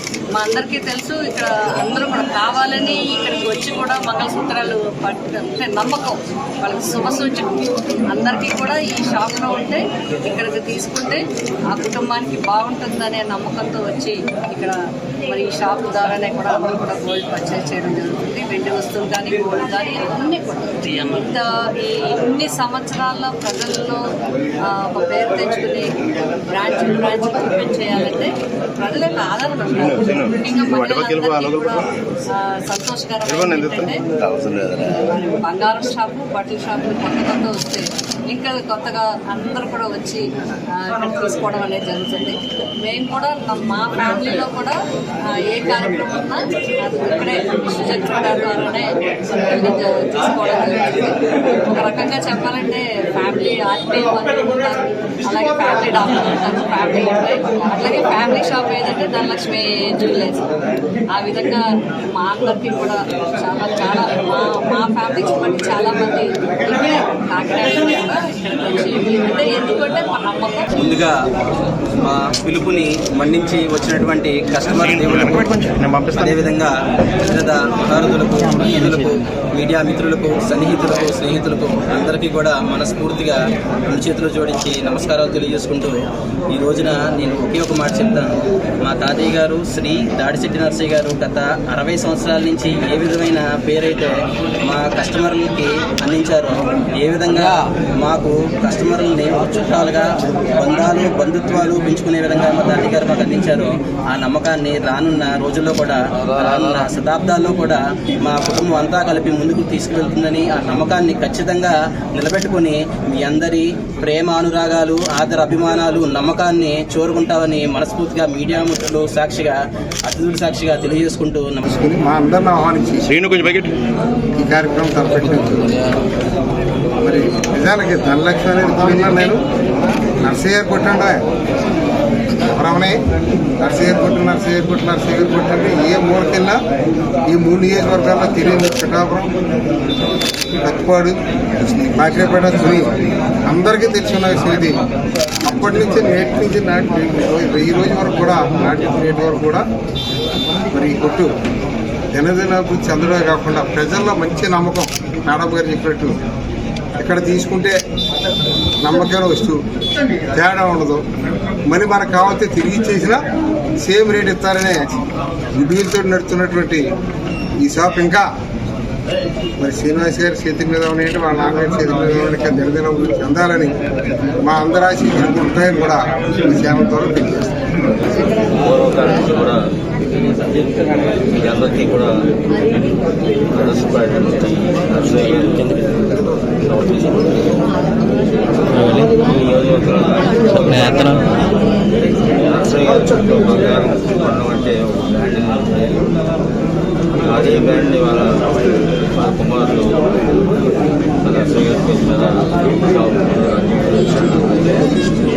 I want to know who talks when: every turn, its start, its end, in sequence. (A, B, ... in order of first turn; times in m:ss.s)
0:00.3-0:07.6 A
0:08.1-0:14.7 A
0:15.3-0:24.0 A
0:24.6-0:25.9 A
0:26.5-0:34.0 A
0:29.8-0:31.8 B
0:33.2-0:35.0 B
0:34.8-0:44.8 A
0:45.3-1:00.5 A
1:01.1-1:01.6 A
1:02.1-1:10.7 A
1:10.8-1:11.1 C
1:12.0-1:16.7 C
1:15.0-1:15.4 B
1:15.9-1:16.3 B
1:17.2-1:23.4 C
1:23.9-1:25.9 C
1:26.5-1:28.3 C
1:28.8-1:34.1 C
1:34.6-2:01.6 C
2:01.7-2:03.1 D
2:03.1-2:03.7 B
2:04.3-2:05.7 D
2:07.0-2:09.4 D
2:10.2-2:11.1 D
2:12.5-2:13.0 D
2:13.6-2:16.6 D
2:17.2-2:19.3 D
2:20.6-2:22.9 D
2:23.4-2:24.8 D
2:25.4-2:29.6 D
2:30.7-2:31.3 D
2:32.1-2:36.1 D
2:37.0-2:37.8 D
2:38.8-2:39.6 D
2:40.3-2:41.0 D
2:41.6-2:43.2 D
2:43.8-2:44.9 D
2:45.5-2:46.8 D
2:47.6-2:48.2 D
2:49.6-2:53.7 D
2:54.4-2:57.6 D
2:58.4-2:59.6 E
3:00.1-3:02.9 E
3:03.4-3:07.7 E
3:08.6-3:16.1 E
3:17.2-3:20.5 E
3:21.2-3:25.0 E